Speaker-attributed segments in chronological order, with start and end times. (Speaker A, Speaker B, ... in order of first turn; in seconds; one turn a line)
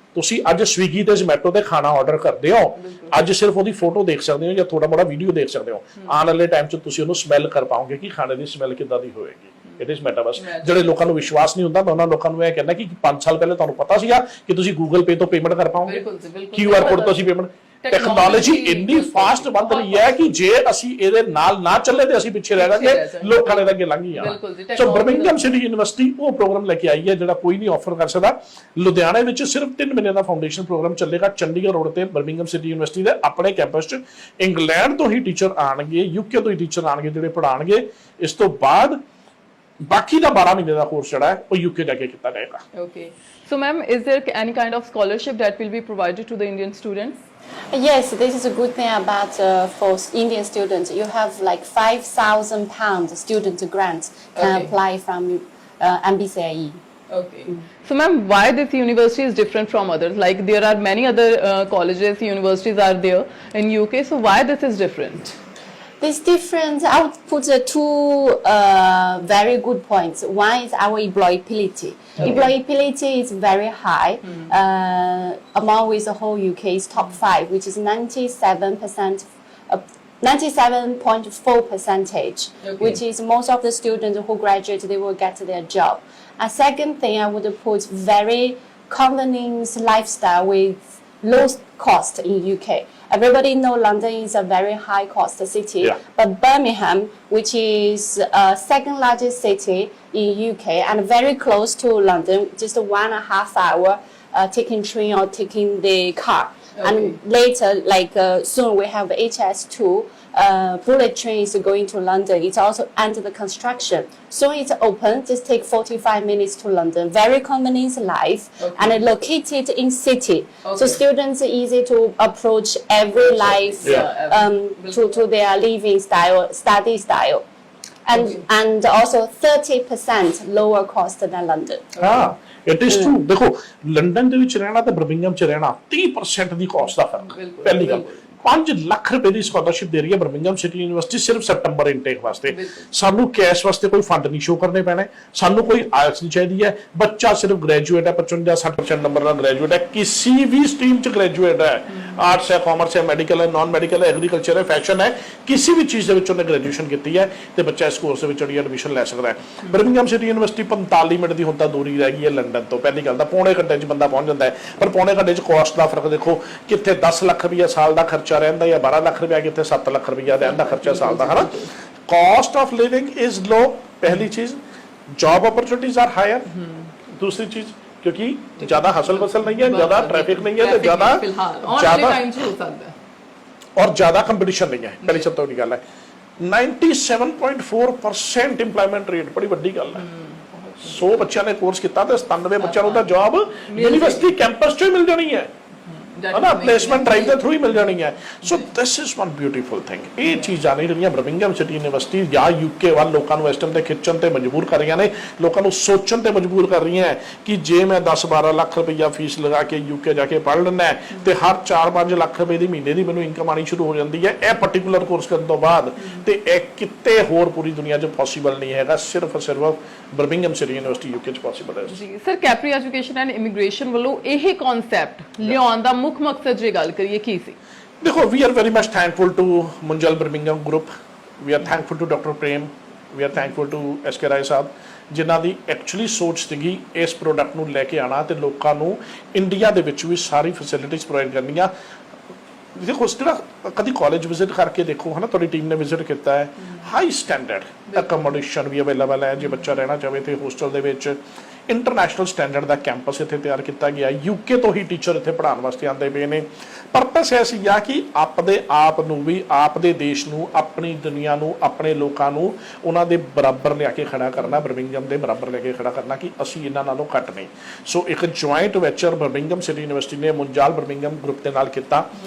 Speaker A: 0.1-16.0
Speaker B: 2.8-3.2
Speaker B: 10.4-10.9
Speaker B: 15.8-17.3
Speaker A: 16.5-39.0
Speaker B: 17.8-20.3
Speaker B: 22.5-25.5
Speaker A: 39.9-42.6
Speaker B: 42.7-47.2
Speaker C: 47.7-56.8
Speaker B: 54.3-54.7
Speaker B: 57.1-65.3
Speaker C: 66.0-127.4
Speaker B: 72.2-72.5
Speaker B: 82.6-83.0
Speaker B: 106.8-107.2
Speaker B: 118.6-119.0
Speaker B: 120.6-121.0
Speaker B: 123.2-125.2
Speaker C: 128.1-131.9
Speaker B: 128.1-128.4
Speaker B: 131.9-132.3
Speaker A: 132.0-171.5
Speaker C: 132.9-133.1
Speaker B: 137.2-138.3
Speaker B: 142.5-142.9
Speaker B: 152.0-152.3
Speaker B: 170.3-171.7
Speaker A: 172.1-174.6
Speaker A: 175.1-176.6
Speaker A: 177.1-182.2
Speaker B: 178.6-182.9
Speaker A: 183.8-185.8
Speaker A: 186.4-190.0
Speaker B: 190.0-191.2
Speaker A: 190.8-195.5
Speaker B: 192.6-194.3
Speaker B: 195.9-197.7
Speaker A: 196.3-222.0
Speaker B: 221.9-227.6
Speaker A: 228.0-241.7
Speaker A: 242.7-251.2
Speaker A: 251.7-272.1